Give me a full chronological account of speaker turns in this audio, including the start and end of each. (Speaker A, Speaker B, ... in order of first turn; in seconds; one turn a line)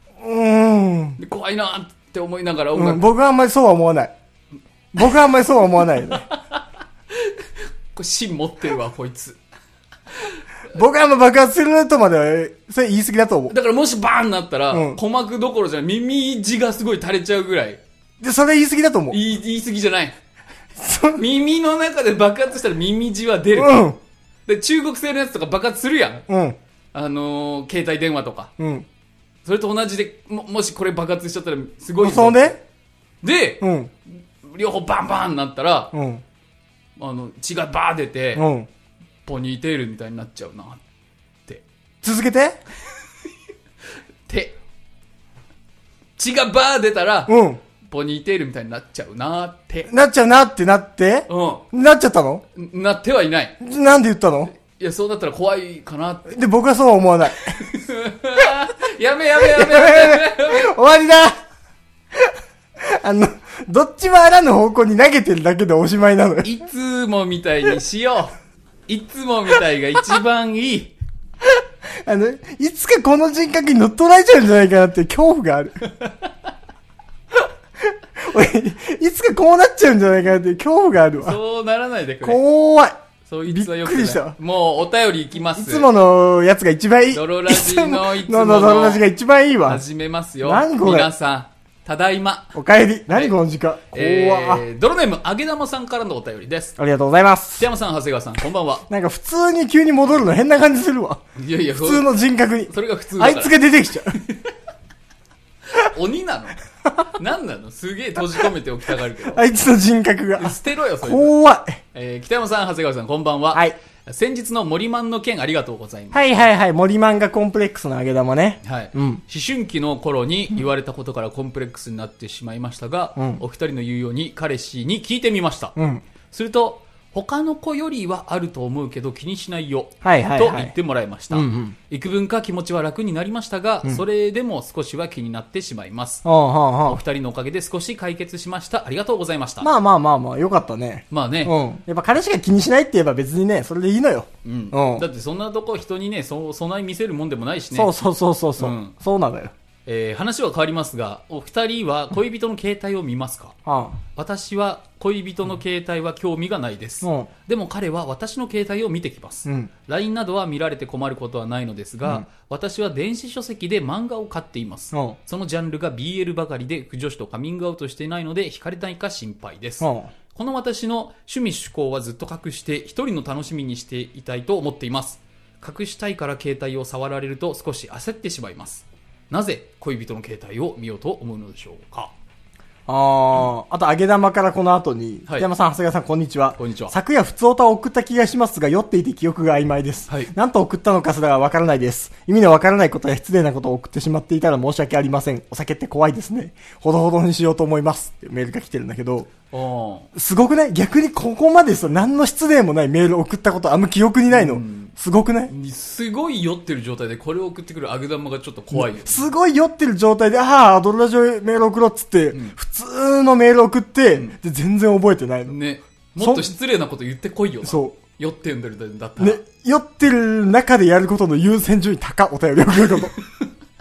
Speaker A: 0.2-1.2
Speaker B: 1.2-3.1
Speaker A: 2.7-4.1
Speaker A: 4.9-6.2
Speaker B: 6.0-9.4
Speaker A: 10.7-13.5
Speaker B: 13.5-17.8
Speaker A: 14.7-15.0
Speaker A: 18.2-19.2
Speaker B: 19.1-20.2
Speaker A: 20.8-21.2
Speaker B: 21.1-23.9
Speaker A: 23.6-24.0
Speaker B: 24.5-26.3
Speaker A: 26.3-26.6
Speaker B: 26.9-28.5
Speaker A: 28.6-28.9
Speaker B: 29.4-32.6
Speaker A: 32.0-32.6
Speaker B: 33.2-33.7
Speaker A: 33.6-33.9
Speaker B: 34.4-35.9
Speaker A: 35.9-36.2
Speaker B: 37.0-38.5
Speaker A: 38.4-38.7
Speaker B: 39.3-40.8
Speaker A: 42.0-42.6
Speaker B: 44.3-44.6
Speaker B: 46.2-49.9
Speaker A: 47.3-47.6
Speaker A: 49.9-52.4
Speaker B: 51.3-51.6
Speaker B: 52.5-53.6
Speaker A: 53.6-54.5
Speaker B: 54.6-56.3
Speaker A: 56.3-57.5
Speaker B: 57.5-60.7
Speaker A: 59.4-61.4
Speaker A: 62.1-66.5
Speaker B: 66.4-68.3
Speaker B: 68.9-70.9
Speaker A: 71.5-75.8
Speaker A: 77.9-81.4
Speaker B: 81.2-82.4
Speaker A: 82.2-84.3
Speaker B: 83.3-85.9
Speaker A: 85.5-89.8
Speaker B: 87.1-89.0
Speaker B: 89.7-92.5
Speaker A: 90.4-91.1
Speaker A: 92.5-94.6
Speaker B: 93.9-96.8
Speaker A: 96.8-97.7
Speaker B: 97.6-98.9
Speaker A: 98.9-101.2
Speaker B: 101.4-102.1
Speaker A: 101.8-104.2
Speaker B: 102.7-103.6
Speaker B: 104.2-104.5
Speaker B: 105.7-106.6
Speaker B: 107.1-109.4
Speaker A: 109.3-111.8
Speaker B: 110.4-111.4
Speaker B: 111.9-116.4
Speaker A: 116.1-119.2
Speaker B: 118.6-125.8
Speaker A: 123.2-123.4
Speaker A: 125.8-126.0
Speaker B: 126.3-136.2
Speaker A: 130.0-130.7
Speaker A: 131.3-131.8
Speaker A: 136.2-137.0
Speaker B: 136.8-139.7
Speaker A: 139.6-145.1
Speaker B: 141.1-141.5
Speaker B: 144.4-147.9
Speaker A: 147.7-149.5
Speaker B: 148.6-148.9
Speaker B: 149.9-153.6
Speaker A: 153.7-154.0
Speaker B: 154.2-182.1
Speaker A: 157.0-157.3
Speaker A: 164.9-165.2
Speaker A: 169.8-170.1
Speaker A: 182.9-199.3
Speaker B: 186.6-186.9
Speaker B: 199.5-200.1
Speaker A: 200.1-205.5
Speaker B: 204.3-204.9
Speaker B: 205.5-209.3
Speaker A: 208.7-215.6
Speaker B: 215.5-219.4
Speaker A: 216.2-216.5
Speaker A: 217.6-218.0
Speaker A: 219.2-223.1
Speaker B: 223.2-223.5